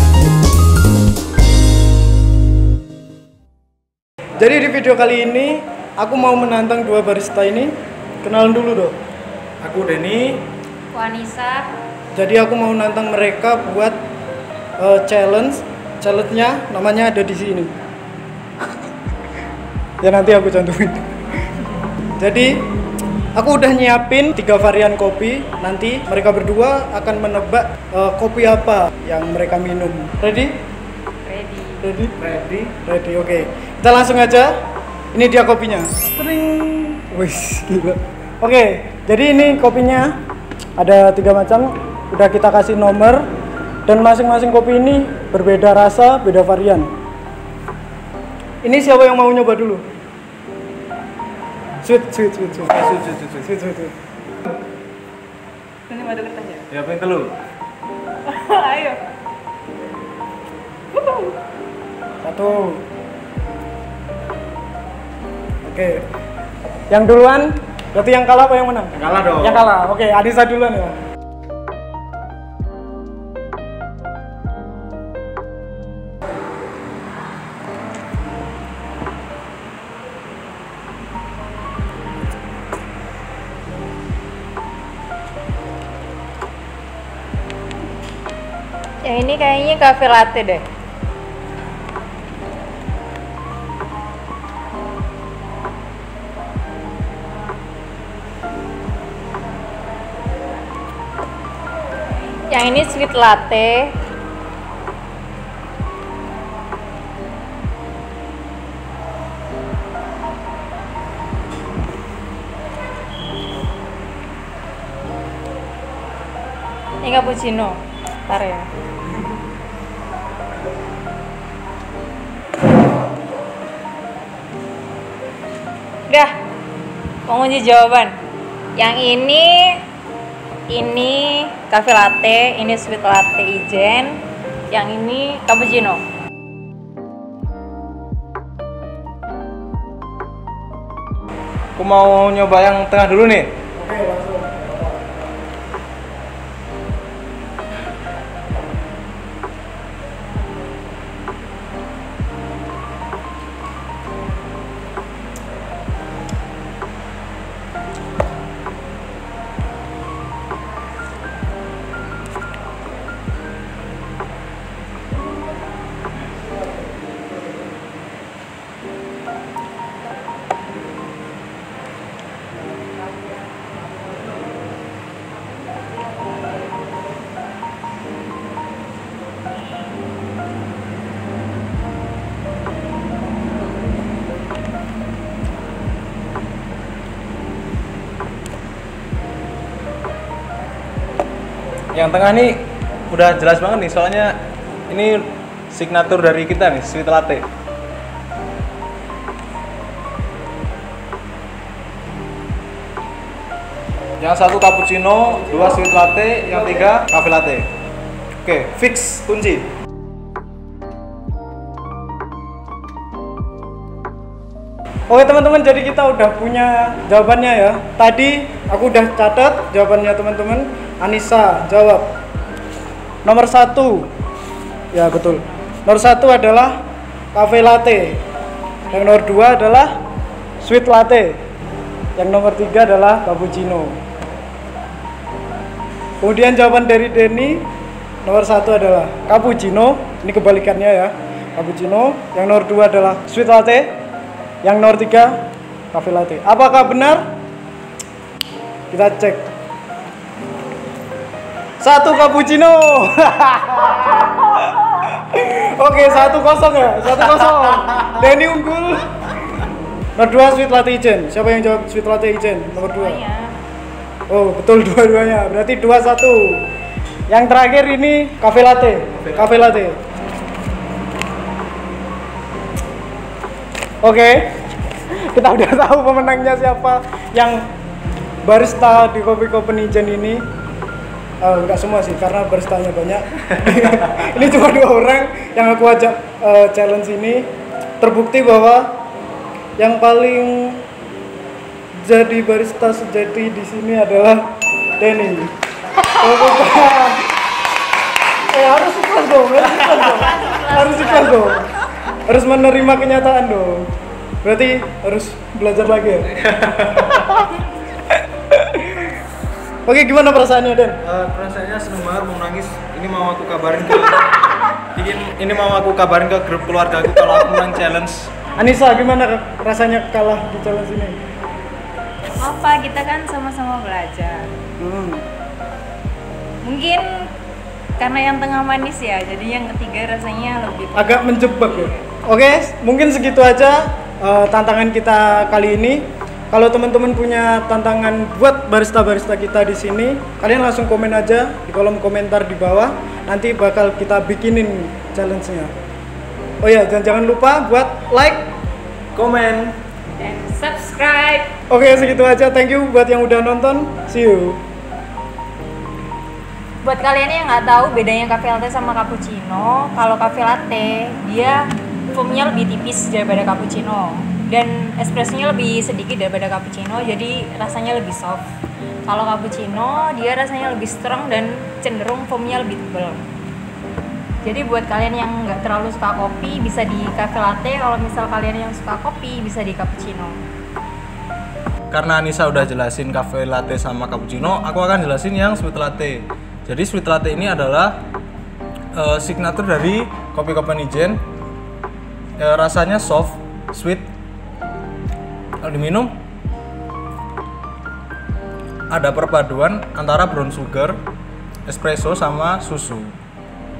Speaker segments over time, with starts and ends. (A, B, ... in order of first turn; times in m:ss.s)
0:04.4-0:09.0 A
0:09.6-0:10.4 B
0:10.9-0:11.7 C
0:12.1-0:14.0 A
0:14.8-0:17.7 A
0:20.0-0:21.1 A
0:22.2-0:22.6 A
0:23.4-0:30.5 A
0:31.2-0:31.8 C
0:31.8-0:32.1 A
0:32.2-0:32.7 B
0:32.8-0:34.5 A
0:35.1-0:40.1 A
0:40.8-0:43.2 A
0:43.9-0:46.9 A
0:48.6-0:49.8 A
0:51.8-0:52.8 A
0:52.7-0:53.5 B
0:53.4-0:54.0 A
0:55.9-0:56.7 C
0:56.7-0:57.3 B
0:58.3-0:59.0 C
1:00.9-1:01.4 C
1:02.2-1:02.8 A
1:05.6-1:06.0 A
1:06.9-1:11.0 A
1:08.9-1:09.6 B
1:29.0-1:30.6 C
1:42.5-1:44.0 C
1:57.0-1:58.7 C
2:07.3-2:08.2 C
2:08.8-2:09.8 C
2:10.7-2:16.0 C
2:21.8-2:23.5 B
2:23.8-2:25.0 A
3:11.9-3:12.6 B
3:13.1-3:14.3 B
3:14.9-3:17.5 B
3:24.2-3:27.7 B
3:28.4-3:29.7 B
3:35.1-3:42.1 A
3:43.2-3:44.1 A
3:44.9-3:46.8 A
3:47.3-3:48.2 A
3:48.9-3:49.1 C
3:48.9-3:49.9 A
3:50.6-3:51.4 A
3:52.2-3:54.0 A
3:56.2-3:57.6 A
3:58.2-4:03.9 A
4:04.6-4:05.3 A
4:05.9-4:07.2 A
4:08.9-4:09.5 A
4:11.8-4:19.1 A
4:20.2-4:23.2 A
4:22.8-4:23.6 C
4:24.3-4:26.6 A
4:27.3-4:30.0 A
4:34.0-4:34.5 A
4:35.2-4:37.6 A
4:38.4-4:40.4 A
4:41.4-4:47.4 A
4:48.0-4:48.9 A
4:49.8-4:50.8 A
4:52.0-4:54.4 A
4:55.0-4:57.3 A
4:58.5-5:03.9 A
5:00.0-5:01.5 C
5:04.4-5:06.4 A
5:06.4-5:07.5 B
5:08.5-5:09.1 A
5:09.9-5:11.0 A
5:11.0-5:14.2 B
5:15.0-5:18.3 B
5:18.6-5:21.2 A
5:22.4-5:24.5 C
5:24.8-5:25.2 A
5:26.6-5:27.3 C
5:28.0-5:31.9 C
5:30.9-5:45.7 A
5:46.6-5:48.5 A
5:49.1-5:49.8 B
5:50.2-5:51.5 C
5:51.7-5:54.6 A
5:56.8-6:08.5 C
6:09.1-6:13.2 C
6:14.4-6:20.4 C
6:21.9-6:28.0 B
6:29.0-6:31.2 B
6:32.4-6:34.1 B
6:35.6-6:36.2 B
6:38.9-6:41.0 B
6:41.7-6:43.2 B